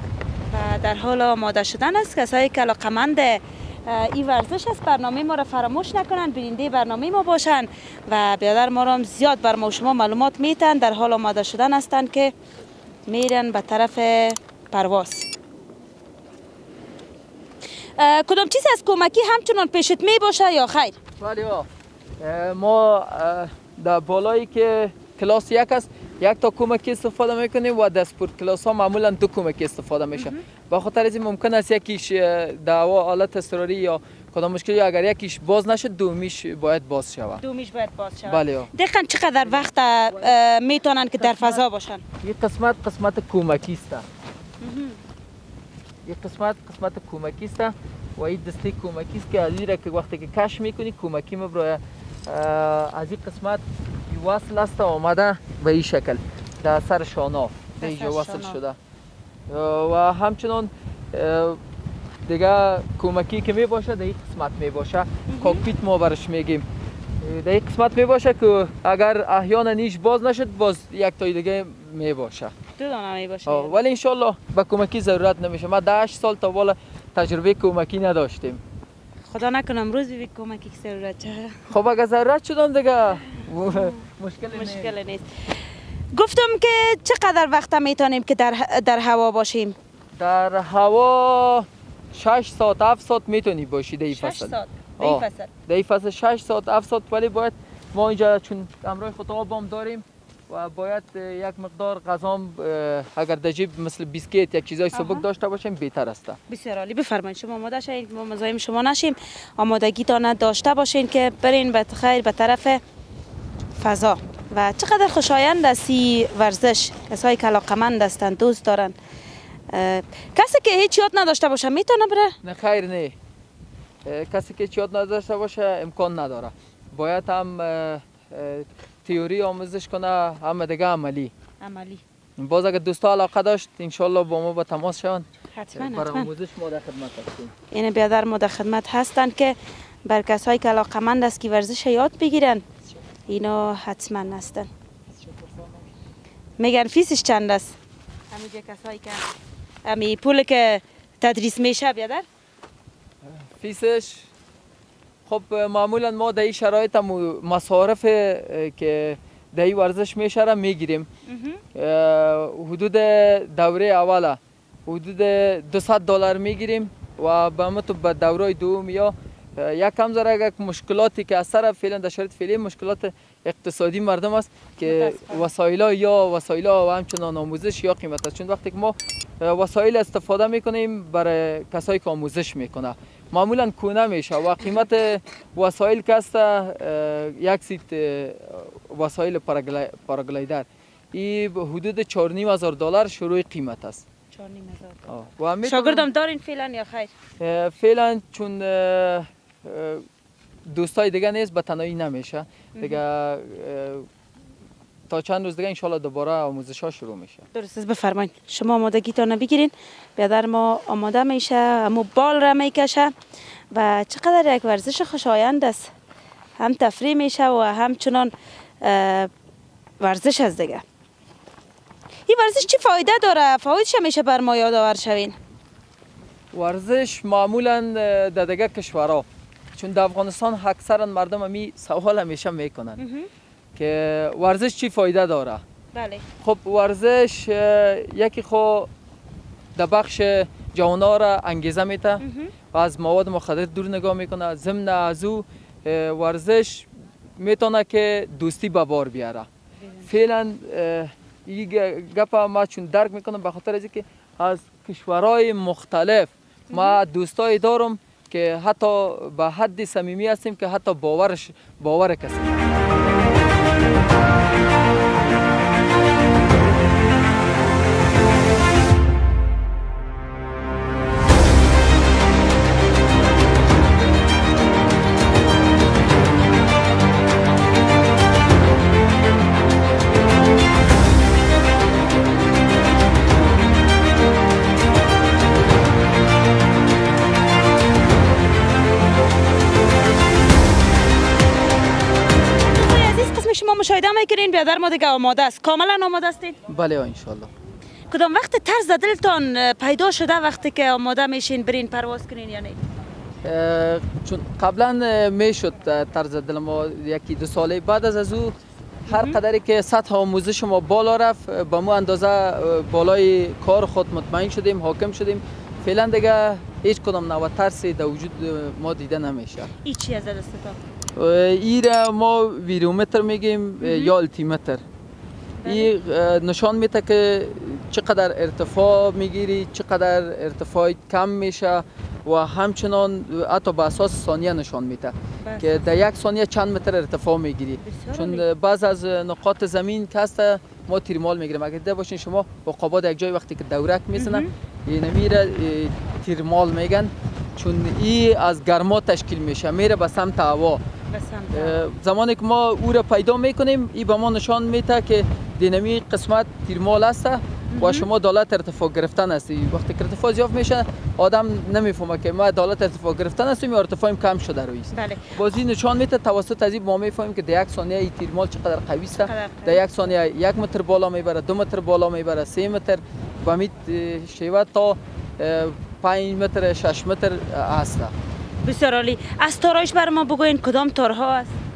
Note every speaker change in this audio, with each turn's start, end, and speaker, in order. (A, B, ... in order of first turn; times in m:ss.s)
0:00.5-0:12.3 A
0:13.1-0:15.3 A
0:18.0-0:21.0 A
0:21.2-0:21.7 B
0:22.2-0:37.4 B
0:30.2-0:30.4 A
0:37.4-0:42.0 A
0:38.2-0:38.7 B
0:41.2-0:41.6 B
0:42.2-0:44.0 B
0:44.6-0:45.0 A
0:46.0-0:58.8 B
0:57.8-0:58.6 A
0:59.5-1:01.6 B
1:02.2-1:06.6 B
1:05.3-1:05.6 A
1:07.2-1:12.5 B
1:12.8-1:13.8 A
1:13.4-1:18.6 B
1:19.3-1:21.6 A
1:21.7-1:24.9 B
1:23.7-1:24.0 A
1:24.5-1:25.3 A
1:26.1-1:29.8 A
1:30.1-1:46.4 B
1:34.1-1:35.5 A
1:44.9-1:45.2 A
1:46.5-1:52.8 A
1:53.8-1:58.9 A
1:59.7-2:02.4 A
2:02.4-2:03.1 B
2:04.0-2:11.3 B
2:11.6-2:12.0 A
2:12.4-2:17.5 B
2:15.5-2:16.3 A
2:17.7-2:22.6 A
2:23.3-2:24.7 A
2:26.6-2:27.8 A
2:28.3-2:29.2 A
2:29.8-2:32.2 A
2:33.2-2:34.3 B
2:35.2-2:41.1 B
2:41.2-2:41.6 A
2:41.7-3:14.0 B
2:54.8-2:55.5 A
3:14.3-3:17.1 A
3:15.1-3:16.1 B
3:17.4-3:20.0 B
3:20.7-3:24.1 B
3:22.8-3:23.0 A
3:25.1-3:27.4 B
3:27.5-3:33.1 A
3:33.7-3:35.9 A
3:36.6-3:39.3 A
3:40.0-3:40.8 A
3:42.3-3:45.4 A
3:46.5-3:53.0 B
3:53.0-3:53.3 A
3:53.8-3:55.6 B
3:55.9-3:56.2 A
3:56.4-3:58.9 B
3:59.7-4:09.5 B
4:02.2-4:02.5 A
4:09.8-4:10.1 A
4:10.0-4:22.7 B
4:16.7-4:17.0 A
4:52.6-4:56.6 A
4:56.7-4:57.5 B
4:58.1-5:02.8 A
5:03.4-5:08.6 B
5:09.1-5:09.4 A
5:09.1-5:19.7 B
5:19.8-5:20.8 A
5:21.2-5:24.8 B
5:23.8-5:24.1 A
5:25.6-5:25.9 A
5:25.6-5:50.8 B
5:35.4-5:35.9 A
5:37.8-5:38.4 A
5:44.2-5:44.5 A
5:51.1-5:51.8 A
5:51.5-6:18.1 B
5:57.7-5:58.1 A
6:04.9-6:05.4 A
6:09.1-6:09.9 A
6:18.6-6:21.5 A